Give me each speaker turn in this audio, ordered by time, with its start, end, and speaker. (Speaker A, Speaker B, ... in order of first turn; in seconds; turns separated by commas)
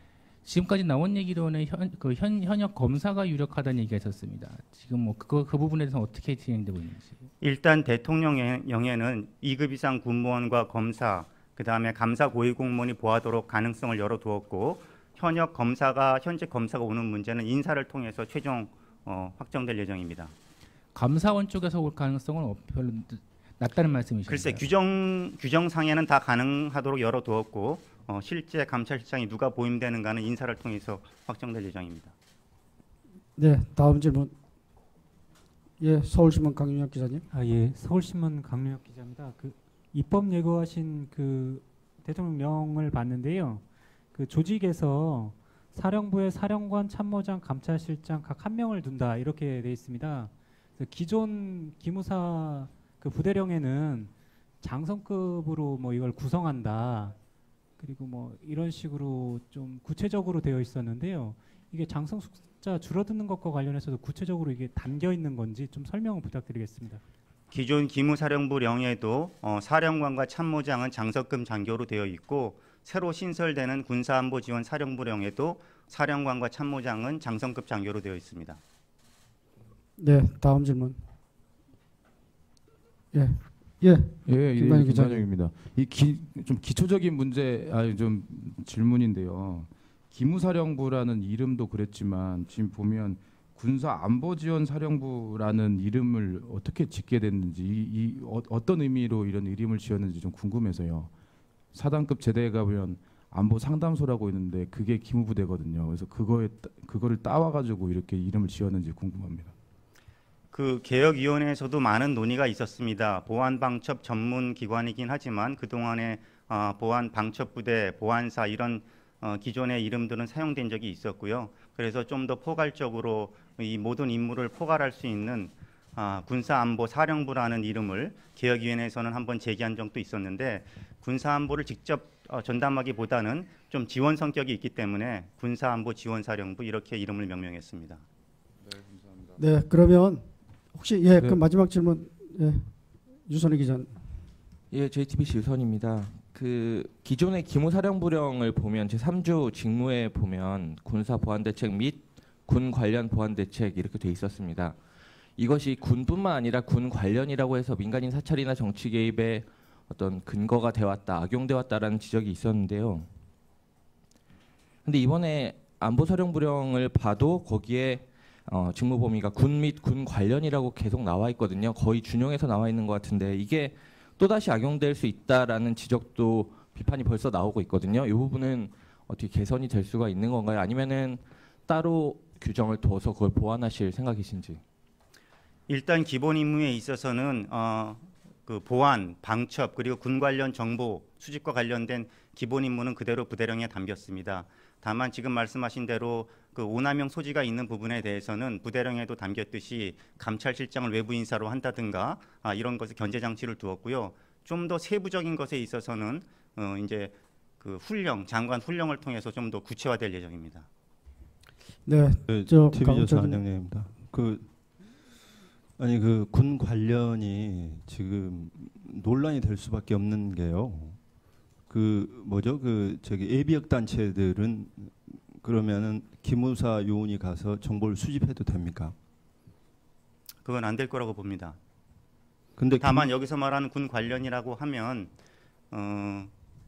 Speaker A: 0.4-7.2, Speaker B: 7.4-20.3, Speaker A: 20.9-24.6, Speaker B: 24.3-32.1, Speaker C: 33.4-34.3, Speaker C: 35.8-37.2, Speaker D: 37.3-57.1, Speaker D: 57.8-67.0, Speaker B: 67.5-78.6, Speaker C: 80.0-81.0, Speaker C: 83.1-85.3, Speaker E: 84.2-101.1, Speaker E: 101.7-109.5, Speaker B: 110.5-138.0, Speaker C: 139.4-142.7, Speaker C: 143.2-143.9, Speaker F: 144.7-154.8, Speaker F: 155.4-163.1, Speaker F: 164.8-184.6, Speaker B: 185.7-210.7, Speaker C: 211.8-213.4, Speaker G: 212.2-214.4, Speaker G: 215.8-221.0, Speaker G: 221.7-228.9, Speaker B: 230.4-231.6, Speaker G: 232.6-233.1, Speaker B: 232.8-235.1, Speaker B: 235.7-236.3